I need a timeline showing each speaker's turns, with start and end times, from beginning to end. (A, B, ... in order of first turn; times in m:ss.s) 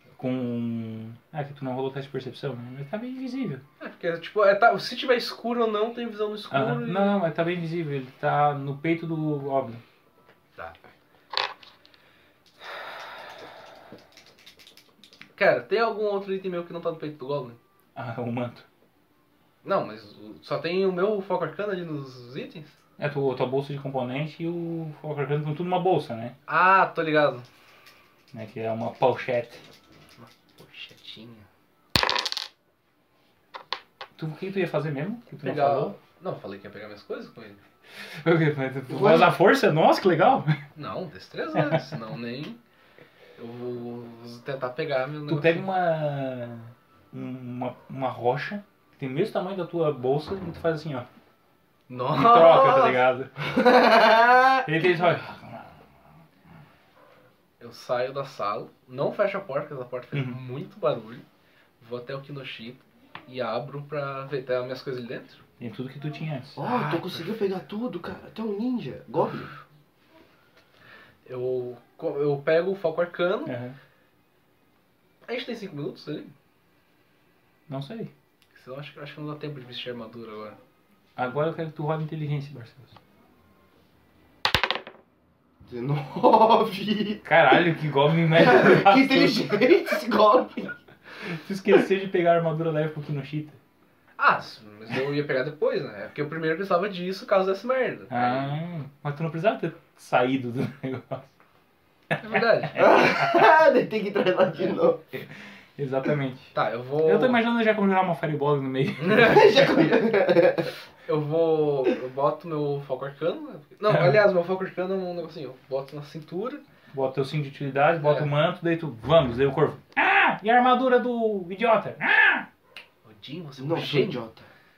0:00.2-0:03.6 A
0:03.8-0:07.2 B
0:06.5-0:09.8 A
0:15.4-0:17.6 B
0:18.0-0:18.7 A
0:19.6-0:22.7 B
0:23.0-0:26.4 A
0:26.5-0:27.5 B
0:28.3-0:29.6 A
0:30.2-0:31.5 B
0:34.2-0:36.0 A
0:35.4-0:37.6 B
0:38.1-0:40.6 A
0:38.9-0:39.4 C
0:40.8-0:42.6 B
0:41.6-0:41.8 A
0:43.4-0:45.7 B
0:45.3-0:51.1 A
0:51.9-0:53.0 B
0:52.1-0:53.3 A
0:53.4-0:54.7 C
0:54.6-0:55.8 A
0:57.6-1:01.2 B
1:00.1-1:00.4 A
1:01.8-1:05.4 B
1:05.6-1:06.6 A
1:06.6-1:09.5 C
1:06.6-1:07.3 B
1:11.3-1:13.6 B
1:13.5-1:13.8 A
1:15.3-1:16.3 B
1:17.7-1:18.1 A
1:18.5-1:20.6 B
1:21.2-1:22.9 A
1:25.7-1:27.3 C
1:27.2-1:29.7 A
1:28.3-1:30.8 C
1:31.2-1:33.6 A
1:34.2-1:38.6 B
1:38.1-1:41.3 A
1:42.2-1:42.9 B
1:42.3-1:43.4 A
1:42.8-1:45.0 C
1:45.1-1:49.7 A
1:46.6-1:47.4 B
1:49.0-1:49.5 B
1:49.2-1:50.7 C
1:51.1-1:56.6 B
1:53.9-1:54.2 A
1:56.9-2:02.5 A
1:58.0-1:58.3 B
2:03.0-2:04.2 B
2:03.6-2:04.5 C